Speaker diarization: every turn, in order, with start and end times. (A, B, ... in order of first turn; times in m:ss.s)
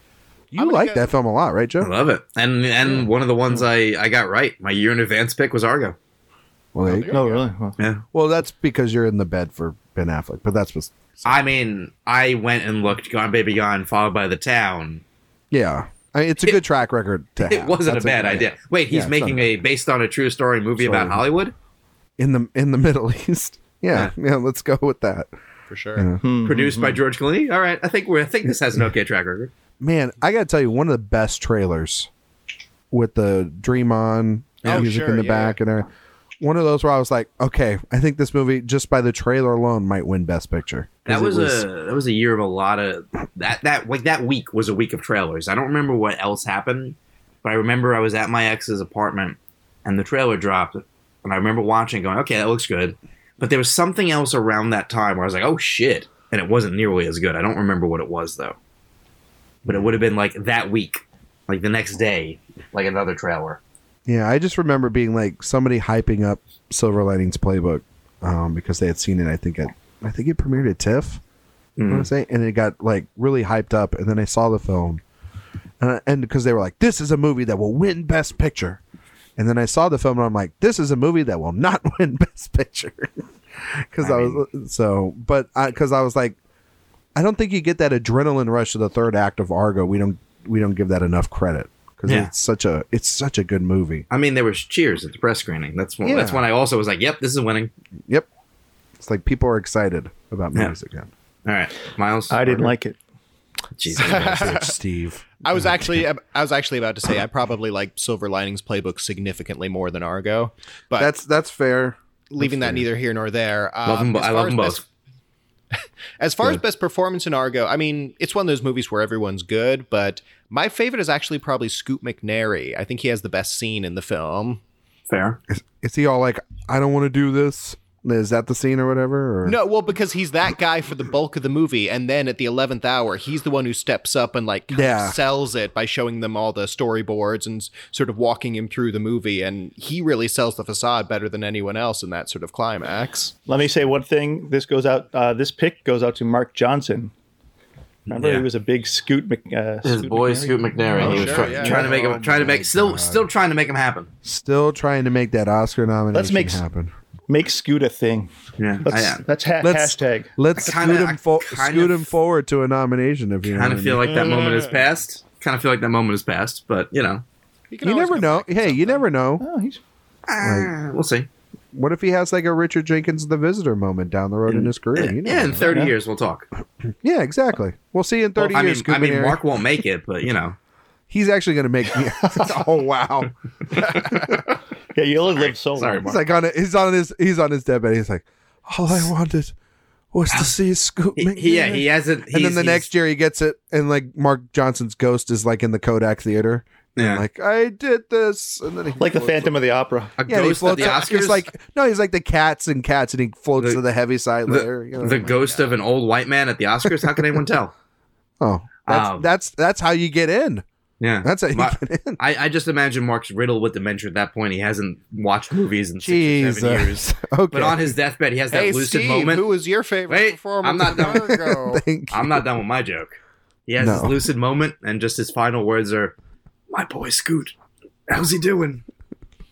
0:00.5-0:01.9 A
0:00.6-0:01.1 B
0:01.8-0:06.0 C
0:06.8-0:07.2 A
0:06.8-0:07.5 B
0:07.1-0:07.8 D
0:07.8-0:08.0 C
0:08.1-0:11.4 A
0:11.2-0:15.0 C
0:15.5-0:19.6 A
0:17.4-0:21.5 C
0:20.8-0:21.2 A
0:22.2-0:25.3 A
0:25.7-0:26.1 B
0:26.0-0:26.2 A
0:26.2-0:27.0 D
0:26.4-0:29.5 C
0:29.8-0:32.1 A
0:32.9-0:35.9 A
0:34.6-0:35.6 B
0:36.4-0:41.7 A
0:41.1-0:58.6 C
0:59.6-1:03.6 C
1:04.1-1:11.2 A
1:11.8-1:12.1 C
1:11.9-1:15.0 A
1:15.8-1:18.8 A
1:19.4-1:26.4 A
1:24.0-1:24.4 C
1:27.2-1:34.0 A
1:34.1-1:37.7 C
1:36.0-1:36.5 A
1:39.0-1:41.1 A
1:41.4-1:42.7 C
1:42.3-1:43.0 D
1:43.8-1:44.5 C
1:43.9-1:46.0 A
1:44.0-1:44.8 B
1:45.4-1:51.1 B
1:51.0-1:52.9 A
1:52.3-1:54.8 B
1:53.8-1:54.8 C
1:56.2-2:04.6 B
2:05.1-2:05.4 C
2:05.5-2:09.6 A
2:09.4-2:23.3 B
2:14.7-2:15.2 A
2:23.5-2:27.1 D
2:28.1-2:28.5 C
2:28.1-2:32.2 D
2:29.8-2:34.1 C
2:31.0-2:33.3 A
2:31.0-2:31.9 B
2:34.2-2:36.9 A
2:36.1-2:36.6 D
2:37.3-2:38.3 D
2:38.6-2:39.2 C
2:38.8-2:40.3 D
2:39.6-2:44.3 A
2:40.6-2:42.1 C
2:43.5-2:47.2 C
2:44.0-2:44.8 B
2:47.7-2:49.1 B
2:47.8-2:49.4 A
2:49.4-2:49.8 D
2:50.3-2:51.3 C
2:50.4-2:50.7 A
2:51.7-2:55.8 A
2:54.5-2:56.5 C
2:55.7-2:55.9 D
2:57.0-2:59.4 A
2:58.4-3:00.6 C
3:01.1-3:04.2 A
3:03.7-3:04.4 C
3:04.9-3:06.2 D
3:05.3-3:06.1 C
3:06.0-3:09.5 A
3:10.1-3:19.5 A
3:11.2-3:12.9 C
3:17.0-3:17.2 C
3:19.0-3:20.2 D
3:20.2-3:21.5 C
3:20.3-3:25.6 A
3:24.5-3:27.7 C
3:28.4-3:30.6 A
3:28.8-3:29.3 C
3:31.0-3:39.5 C
3:31.2-3:32.2 A
3:36.0-3:38.0 A
3:38.5-3:41.8 B
3:40.1-3:41.5 C
3:41.0-3:42.5 A
3:42.1-3:46.2 C
3:43.8-3:44.2 A
3:46.7-3:47.5 C
3:48.1-3:48.8 C